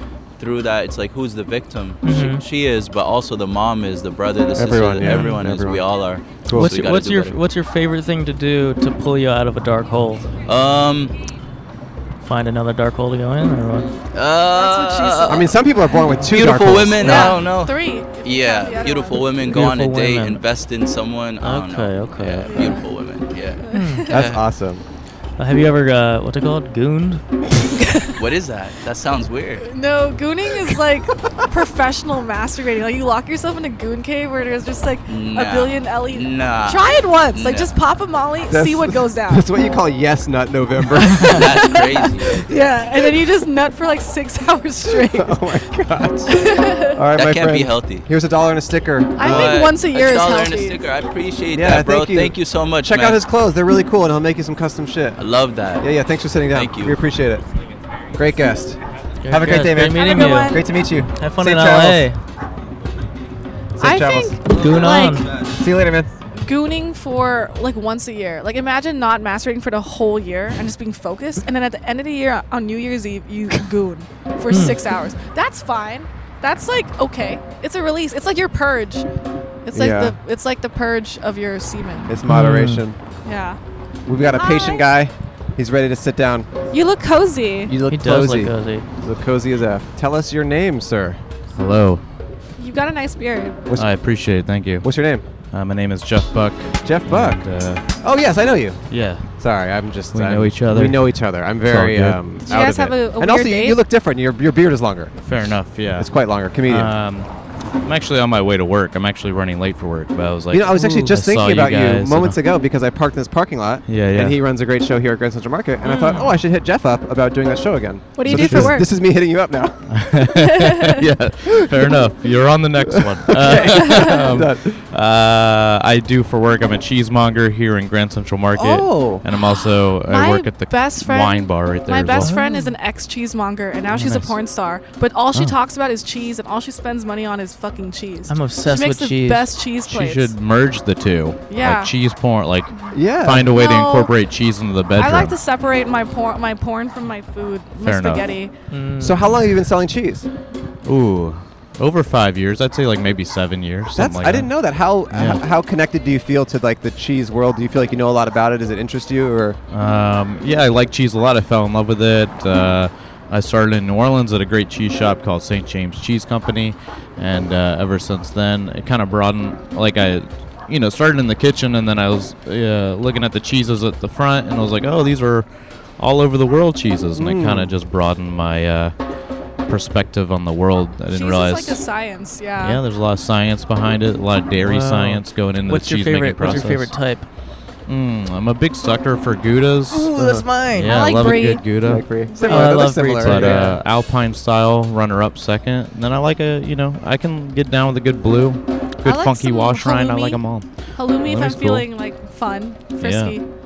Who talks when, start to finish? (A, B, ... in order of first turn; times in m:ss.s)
0:00.4-0:07.4 A
0:02.0-0:02.4 B
0:04.5-0:05.8 C
0:05.0-0:05.4 B
0:06.4-0:06.8 C
0:06.5-0:10.3 B
0:10.4-0:11.2 A
0:12.2-0:13.9 B
0:14.1-0:15.5 A
0:14.5-0:15.5 D
0:15.3-0:17.4 C
0:16.3-0:24.4 A
0:17.0-0:19.4 D
0:19.5-0:20.4 B
0:21.4-0:22.7 B
0:22.5-0:22.8 D
0:23.6-0:24.1 D
0:23.7-0:24.1 B
0:24.1-0:24.8 C
0:25.4-0:27.2 B
0:27.7-0:28.2 D
0:28.2-0:29.7 A
0:29.6-0:39.5 D
0:35.1-0:37.7 A
0:38.5-0:41.4 C
0:41.1-0:45.4 D
0:41.2-0:42.6 A
0:44.9-0:49.6 C
0:46.3-0:47.0 D
0:47.1-0:48.1 A
0:49.2-0:50.8 D
0:49.2-0:53.2 A
0:51.5-0:55.2 C
0:55.2-0:55.9 A
0:55.8-0:57.4 C
0:56.5-0:57.0 A
0:58.1-1:02.1 C
0:59.2-1:00.6 B
0:59.9-1:00.6 D
1:01.2-1:02.2 B
1:03.8-1:06.1 C
1:03.8-1:05.3 D
1:04.5-1:05.4 B
1:06.4-1:19.0 D
1:14.5-1:14.8 B
1:19.6-1:22.1 D
1:19.7-1:20.2 C
1:22.1-1:23.0 C
1:22.3-1:22.8 B
1:23.2-1:23.6 D
1:24.0-1:26.5 C
1:24.2-1:24.9 D
1:26.7-1:27.7 D
1:27.7-1:31.2 C
1:27.9-1:28.8 B
1:31.6-1:32.0 E
1:32.6-1:33.6 D
1:33.7-1:34.9 E
1:34.8-1:35.2 C
1:35.5-1:37.8 E
1:36.8-1:37.4 C
1:38.0-1:38.8 C
1:38.9-1:39.2 E
1:39.4-1:45.1 C
1:40.1-1:42.2 E
1:42.4-1:43.8 D
1:45.2-1:46.1 E
1:46.0-1:46.9 C
1:46.6-1:47.3 E
1:47.8-1:52.4 E
1:50.5-1:59.9 C
1:53.9-1:54.4 E
1:55.8-1:56.3 B
1:58.2-1:58.9 D
1:58.2-1:58.8 E
1:59.9-2:12.3 E
2:00.3-2:01.0 D
2:01.5-2:02.0 C
2:02.9-2:04.8 C
2:03.5-2:04.1 D
2:08.5-2:09.2 C
2:09.3-2:20.3 D
2:12.2-2:12.7 B
2:13.9-2:14.4 E
2:18.3-2:19.5 B
2:19.9-2:25.3 E
2:21.5-2:21.9 D
2:22.9-2:23.5 C
2:23.5-2:24.1 D
2:25.0-2:28.5 D
2:27.8-2:28.3 E
2:28.7-2:29.4 B
2:29.0-2:30.3 C
2:30.8-2:34.5 E
2:34.0-2:39.6 C
2:35.1-2:35.4 E
2:39.7-2:55.4 E
2:56.0-2:58.9 E
2:57.1-2:57.7 C
2:59.6-3:01.8 E
3:01.1-3:02.8 D
3:02.6-3:06.9 E
3:04.6-3:07.2 B
3:07.9-3:10.2 E
3:09.9-3:11.0 B
3:10.1-3:10.5 C
3:10.7-3:12.2 E
3:10.8-3:11.7 D
3:11.8-3:13.6 C
3:12.3-3:12.8 D
3:12.4-3:13.8 B
3:12.7-3:21.9 E
3:19.0-3:20.4 D
3:20.9-3:23.4 D
3:23.0-3:23.4 E